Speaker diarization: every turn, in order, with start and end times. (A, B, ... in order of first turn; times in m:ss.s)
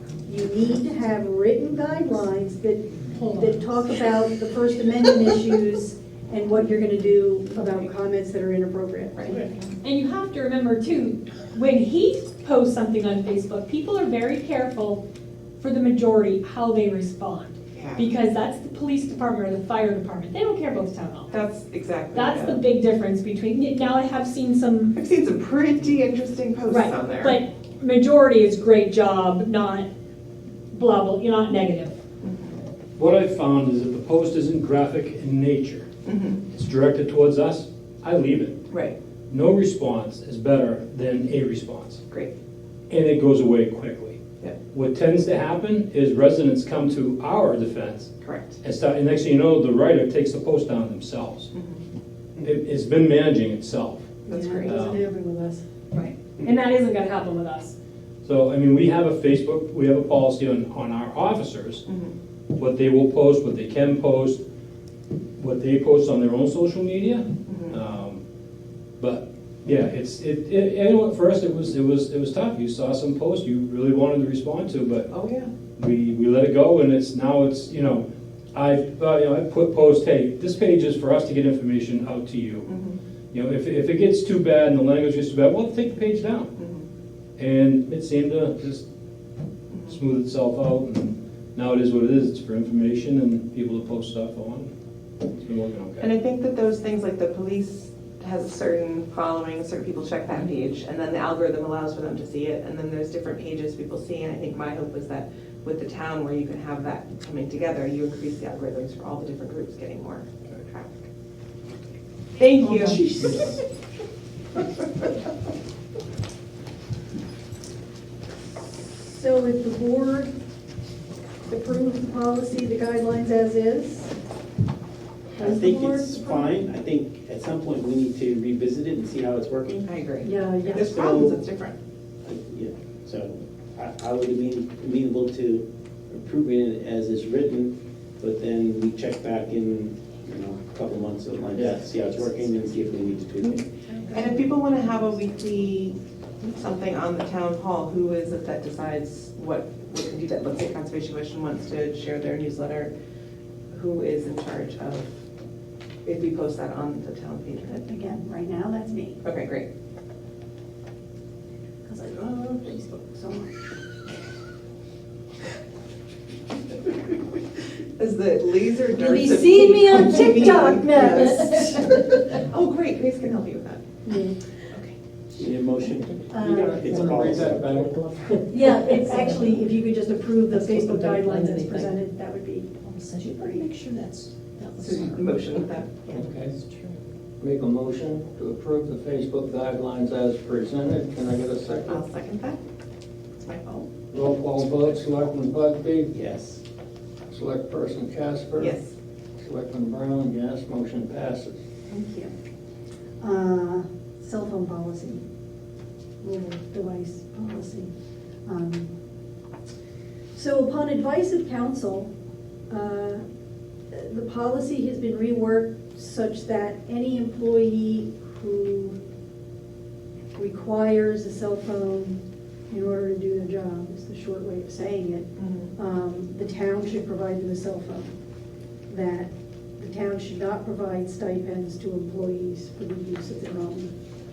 0:00.2-0:09.5 A
0:03.1-0:03.6 B
0:09.8-0:15.0 B
0:15.6-0:21.4 B
0:17.7-0:18.1 C
0:21.3-0:22.6 C
0:22.1-0:24.9 B
0:24.9-0:27.4 C
0:26.6-0:29.9 B
0:30.7-0:32.0 B
0:32.2-0:32.6 C
0:33.0-0:35.9 D
0:36.0-0:36.4 C
0:36.5-0:38.6 D
0:38.7-0:39.0 C
0:39.3-0:42.0 D
0:42.9-0:44.2 D
0:44.7-0:51.5 D
0:48.2-0:48.6 C
0:51.5-0:51.8 C
0:52.4-0:54.2 D
0:54.3-0:54.8 C
0:54.3-0:55.6 A
0:54.7-0:55.0 D
0:55.9-0:57.7 B
0:58.2-1:01.8 D
1:01.9-1:02.1 C
1:02.6-1:04.4 D
1:05.4-1:08.2 D
1:07.5-1:07.8 C
1:09.0-1:15.1 D
1:15.1-1:15.5 C
1:15.8-1:22.7 D
1:22.7-1:23.0 C
1:23.3-1:26.5 D
1:26.6-1:26.8 C
1:27.4-1:28.9 D
1:29.7-1:30.0 C
1:29.9-1:34.7 D
1:35.2-1:36.1 D
1:36.0-1:51.0 C
1:52.4-1:53.5 C
1:52.6-1:53.5 A
1:59.0-2:00.3 A
2:01.5-2:04.2 A
2:05.4-2:06.6 A
2:05.4-2:09.9 E
2:09.8-2:11.8 C
2:10.2-2:10.9 A
2:10.8-2:11.4 E
2:12.2-2:23.6 E
2:24.1-2:32.9 C
2:33.7-2:35.1 C
2:36.0-2:37.8 C
2:37.7-2:39.2 A
2:39.2-2:39.7 C
2:41.8-2:43.5 A
2:48.0-2:53.8 C
2:49.0-2:52.3 A
2:54.1-2:54.4 A
2:55.4-2:57.8 E
2:56.3-2:56.8 A
2:56.6-2:57.9 F
2:56.8-2:59.6 G
2:58.5-3:03.7 A
3:00.5-3:01.9 G
3:02.9-3:05.3 G
3:04.7-3:06.2 C
3:06.1-3:06.6 F
3:06.6-3:07.0 G
3:07.4-3:12.0 F
3:11.8-3:12.6 C
3:13.4-3:13.9 C
3:14.1-3:16.1 F
3:16.1-3:16.6 E
3:17.3-3:18.8 F
3:18.6-3:18.9 C
3:19.4-3:21.6 F
3:21.9-3:22.3 A
3:23.2-3:25.2 A
3:26.2-3:27.9 A
3:28.5-3:28.9 A
3:30.3-3:32.1 A
3:32.7-3:33.2 A
3:33.9-3:39.0 A
3:40.3-3:42.2 A
3:42.7-3:48.1 A
3:45.4-3:45.7 C
3:48.9-3:53.9 A